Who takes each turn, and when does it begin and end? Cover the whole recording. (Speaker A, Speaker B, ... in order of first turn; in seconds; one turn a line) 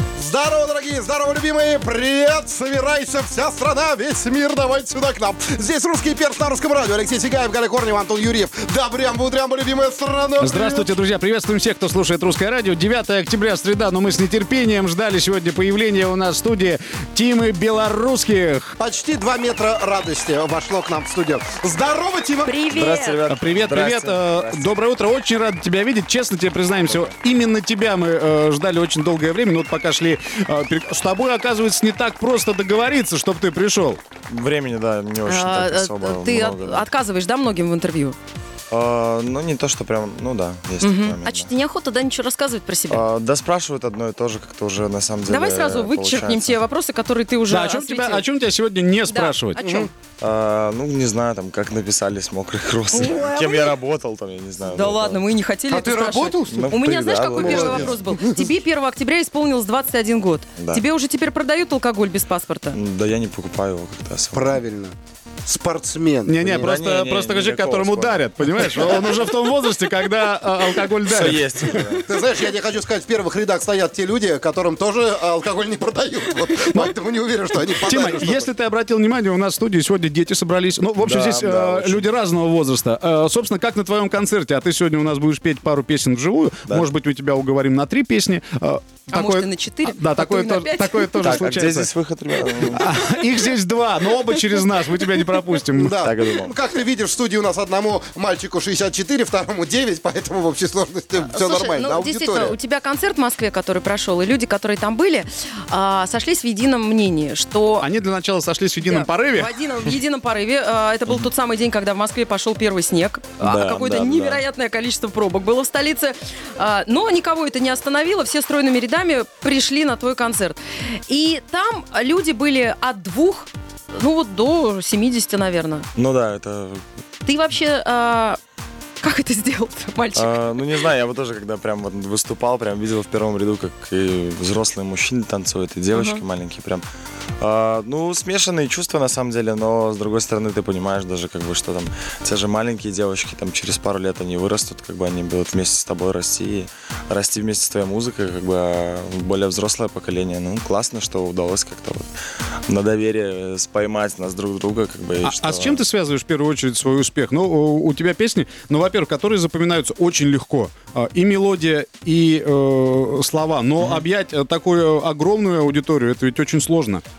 Speaker A: 0.1-10.8
Speaker B: 10.4-18.7
Speaker A: 18.8-22.7
Speaker C: 22.5-23.2
Speaker D: 22.7-24.7
Speaker B: 23.3-34.0
Speaker D: 34.3-36.9
Speaker C: 35.2-38.2
Speaker D: 38.7-41.5
Speaker C: 40.8-43.0
Speaker D: 42.9-46.6
Speaker C: 45.3-48.2
Speaker B: 47.5-49.6
Speaker C: 49.1-49.9
Speaker A: 49.6-49.9
Speaker D: 50.2-55.2
Speaker C: 52.9-53.7
Speaker C: 54.7-62.8
Speaker A: 55.7-56.7
Speaker D: 56.5-58.0
Speaker A: 57.3-58.5
Speaker D: 60.6-60.8
Speaker D: 62.7-64.6
Speaker A: 64.3-64.9
Speaker A: 65.5-66.7
Speaker B: 66.3-71.8
Speaker D: 66.4-69.1
Speaker D: 71.0-72.1
Speaker A: 72.0-78.5
Speaker B: 77.8-91.9
Speaker D: 81.0-82.0
Speaker C: 89.1-91.5
Speaker D: 91.2-93.0
Speaker B: 92.7-95.9
Speaker A: 95.7-102.5
Speaker D: 96.0-96.5
Speaker C: 101.3-107.8
Speaker B: 107.8-109.5
Speaker C: 108.8-125.8
Speaker D: 113.4-114.4
Speaker D: 125.9-126.8
Speaker C: 127.2-128.4
Speaker C: 129.0-130.4
Speaker D: 130.1-136.8
Speaker C: 135.9-136.2
Speaker D: 137.4-152.1
Speaker D: 152.7-155.8
Speaker B: 155.2-167.0
Speaker D: 163.8-164.0